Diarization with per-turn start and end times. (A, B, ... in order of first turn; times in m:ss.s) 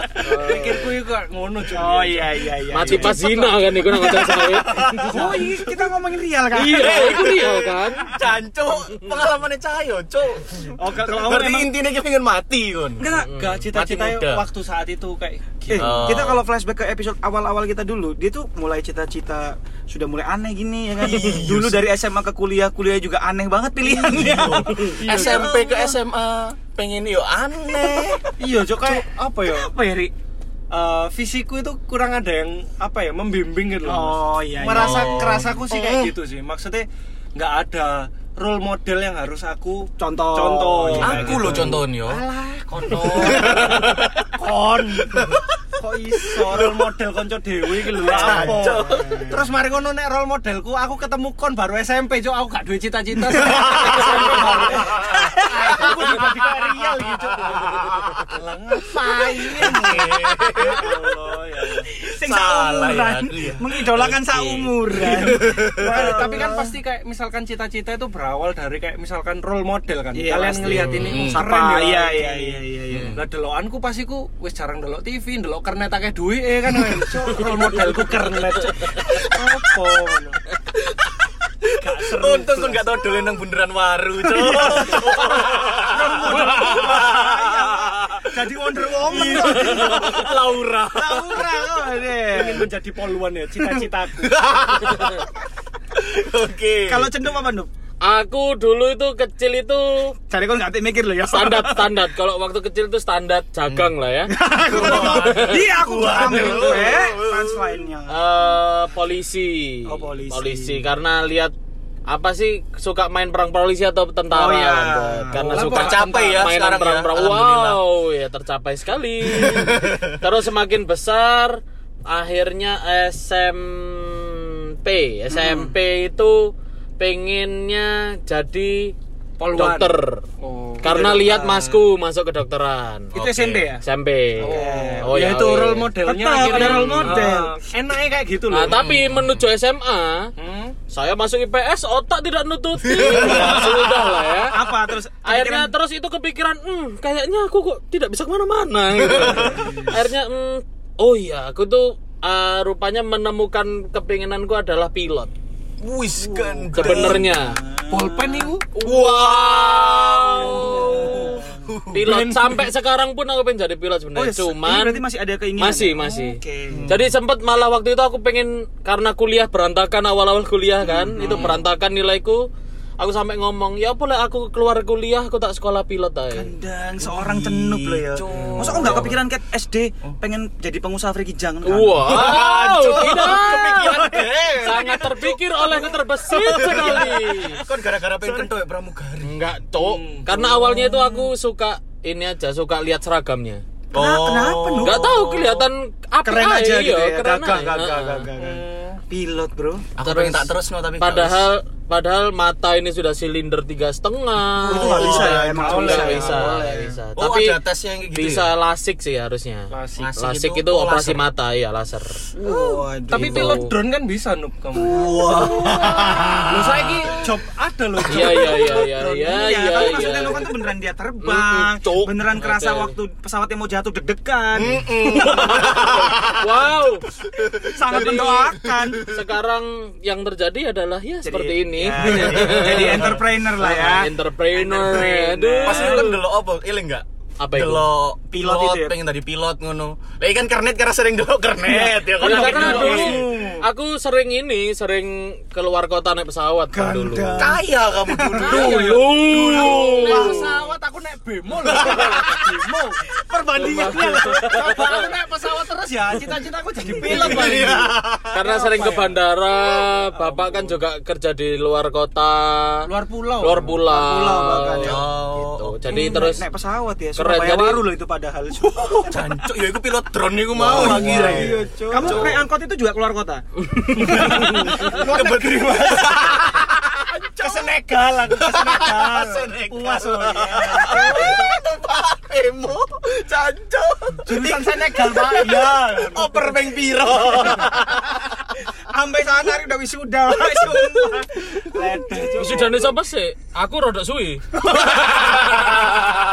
0:00.2-0:01.0 A
0:00.4-0:03.6 B
0:01.7-0:03.3 C
0:02.7-0:05.2 A
0:03.9-0:05.6 D
0:05.1-0:05.5 B
0:05.1-0:07.8 C
0:06.5-0:08.1 A
0:06.6-0:13.1 D
0:10.6-0:11.7 C
0:13.0-0:13.3 C
0:13.1-0:13.7 A
0:13.3-0:16.1 B
0:13.7-0:14.5 D
0:15.7-0:25.9 C
0:15.7-0:16.4 D
0:21.0-0:21.8 D
0:24.0-0:28.3 D
0:24.2-0:25.9 B
0:27.9-0:28.2 C
0:28.4-0:29.7 B
0:28.8-0:30.1 C
0:30.7-1:01.8 B
0:33.8-0:35.5 C
0:34.7-0:36.1 D
0:40.0-0:41.8 C
0:41.0-0:42.2 D
0:43.0-0:44.3 D
0:45.1-0:45.4 D
0:46.4-0:46.9 D
0:47.8-0:49.1 D
0:48.0-0:49.5 C
0:53.5-0:54.3 D
0:53.5-0:56.3 C
0:53.7-0:54.8 A
0:57.7-0:58.2 D
0:59.6-1:00.9 D
0:59.6-1:00.0 C
1:00.6-1:06.7 C
1:02.1-1:06.4 D
1:04.9-1:12.6 B
1:10.1-1:13.1 C
1:10.7-1:11.5 D
1:12.9-1:13.2 D
1:13.1-1:20.4 B
1:18.7-1:20.1 D
1:20.9-1:28.3 D
1:21.8-1:23.2 B
1:24.2-1:30.4 C
1:24.6-1:25.1 B
1:29.0-1:31.4 D
1:30.9-1:32.7 C
1:32.3-1:34.4 B
1:34.2-1:35.3 D
1:35.9-1:37.1 D
1:36.9-1:37.7 C
1:38.0-1:40.1 A
1:40.3-1:41.9 C
1:41.3-1:45.7 A
1:44.3-1:48.6 C
1:44.7-1:47.8 D
1:44.8-1:45.1 B
1:46.2-1:46.5 A
1:48.1-1:51.5 A
1:49.9-1:50.8 C
1:52.0-2:08.9 A
1:54.3-1:55.6 C
1:55.3-1:56.5 B
1:55.6-1:57.8 D
1:59.3-2:00.0 D
2:05.3-2:05.7 C
2:09.4-2:11.4 B
2:09.5-2:10.2 A
2:10.8-2:17.3 A
2:10.9-2:11.6 C
2:13.1-2:13.8 C
2:14.4-2:18.8 B
2:14.4-2:15.2 C
2:16.0-2:17.5 C
2:18.5-2:20.3 A
2:18.6-2:19.4 D
2:20.4-2:20.8 B
2:20.9-2:24.6 A
2:22.9-2:23.9 D
2:23.2-2:23.6 C
2:24.5-2:25.7 C
2:25.2-2:35.3 A
2:29.0-2:29.7 D
2:29.2-2:29.9 C
2:35.8-2:37.3 D
2:36.2-2:38.5 C
2:36.7-2:37.5 A
2:37.9-2:38.7 B
2:38.8-2:41.3 A
2:38.8-2:42.0 D
2:40.4-2:41.7 C
2:40.7-2:41.4 B
2:41.9-2:45.0 A
2:42.0-2:42.6 B
2:44.1-2:46.9 C
2:45.6-2:52.4 A
2:46.7-2:47.1 D
2:50.8-2:51.6 C
2:51.2-2:51.6 D
2:53.0-2:56.5 A
2:56.3-3:05.1 C
2:57.0-2:59.2 D
2:58.7-2:59.0 A
3:01.6-3:07.6 A
3:02.0-3:09.3 D
3:06.5-3:07.1 C
3:09.2-3:13.6 A
3:09.7-3:10.5 B
3:10.6-3:11.2 C
3:13.9-3:15.7 D
3:13.9-3:15.0 C
3:14.8-3:18.3 A
3:16.2-3:19.9 C
3:18.4-3:19.0 B
3:20.0-3:21.5 D
3:20.0-3:27.6 A
3:24.5-3:26.2 D
3:24.7-3:27.0 C
3:24.8-3:26.4 B
3:27.2-3:28.5 D
3:28.1-3:32.2 A
3:29.7-3:30.1 B
3:30.0-3:31.2 D
3:32.3-3:33.6 C
3:32.5-3:35.1 B
3:33.1-3:33.8 A
3:34.7-3:36.9 D
3:35.2-3:36.1 C
3:36.5-3:39.1 B
3:38.0-3:40.5 A
3:38.7-3:45.9 C
3:41.2-3:42.9 A
3:44.5-3:46.4 D
3:45.0-3:47.0 A
3:47.4-3:48.0 D
3:47.5-3:49.1 C
3:47.9-3:48.5 A
3:49.0-3:56.2 A
3:51.2-3:56.1 C
3:52.0-3:53.2 D
3:55.6-4:03.2 D
3:57.4-3:57.9 A
3:58.3-3:59.0 C
4:01.6-4:03.6 C
4:02.2-4:07.5 A
4:02.3-4:03.1 B
4:06.7-4:08.7 C
4:07.4-4:10.4 D
4:08.3-4:19.2 B
4:08.5-4:10.6 A
4:11.8-4:12.4 D
4:13.5-4:14.8 A
4:13.7-4:14.0 D
4:17.0-4:18.4 D
4:17.1-4:17.5 A
4:18.3-4:22.8 A
4:20.1-4:20.8 B
4:22.8-4:23.8 B
4:23.4-4:26.4 A
4:23.9-4:25.0 C
4:24.8-4:26.3 D
4:25.9-4:29.2 C
4:27.2-4:27.8 A
4:28.6-4:32.4 D
4:30.6-4:33.4 C
4:30.6-4:31.5 A
4:31.5-4:32.2 B
4:33.8-4:36.6 B
4:34.0-4:34.5 C
4:34.0-4:37.7 D
4:37.4-4:41.5 B
4:38.3-4:44.3 D
4:40.8-4:41.4 C
4:44.2-4:47.6 B
4:44.4-4:45.0 C
4:45.1-4:48.1 D
4:47.5-4:48.0 C
4:48.9-4:52.9 C
4:51.9-4:52.7 B
4:52.4-4:54.4 A
4:54.6-4:55.9 D